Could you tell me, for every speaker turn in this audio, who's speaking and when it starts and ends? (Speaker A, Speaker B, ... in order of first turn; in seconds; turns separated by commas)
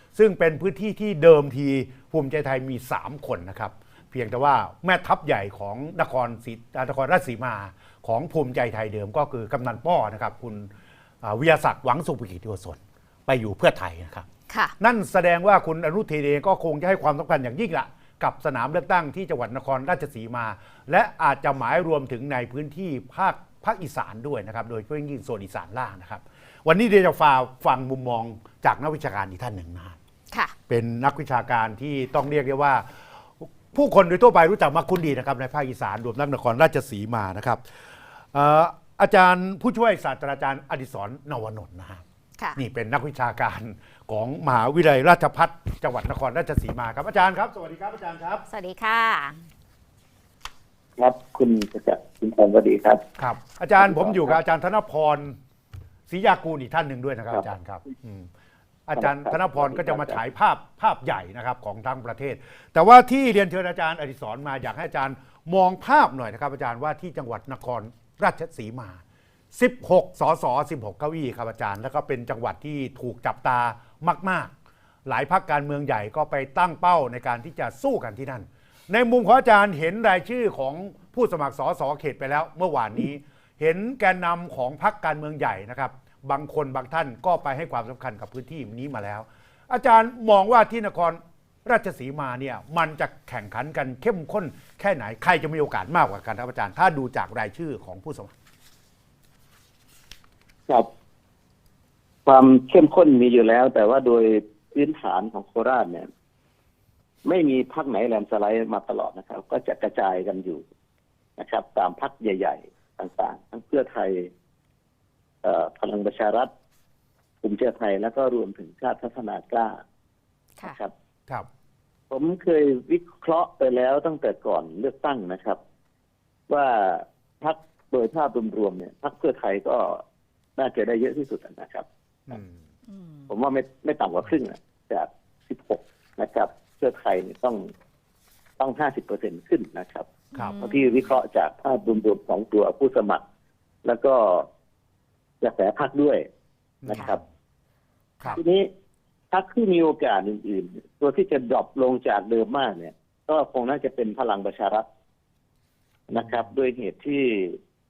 Speaker A: 0.1-10.7, Speaker A: 11.2-14.2, Speaker B: 14.5-14.7, Speaker A: 14.8-30.0, Speaker A: 30.7-37.6, Speaker A: 38.3-42.0, Speaker A: 42.5-48.4, Speaker B: 48.5-49.4, Speaker C: 51.0-53.1, Speaker A: 53.2-55.4, Speaker C: 53.8-54.4, Speaker A: 56.1-58.3, Speaker A: 58.9-69.0, Speaker C: 59.0-60.2, Speaker A: 69.5-74.5, Speaker A: 75.0-98.3, Speaker C: 102.2-106.1, Speaker C: 107.2-110.6, Speaker C: 111.4-114.3, Speaker C: 115.4-116.5, Speaker C: 117.4-119.8, Speaker C: 120.6-120.9, Speaker C: 122.1-125.6, Speaker C: 126.5-130.0, Speaker C: 130.6-132.3, Speaker A: 132.3-132.6, Speaker B: 132.9-133.3, Speaker C: 133.3-137.6, Speaker C: 138.6-143.2, Speaker B: 140.3-141.1, Speaker C: 143.8-144.5, Speaker C: 145.4-146.2, Speaker A: 146.8-147.2, Speaker C: 146.9-147.2, Speaker C: 148.3-148.7, Speaker C: 149.3-154.8, Speaker C: 156.1-157.6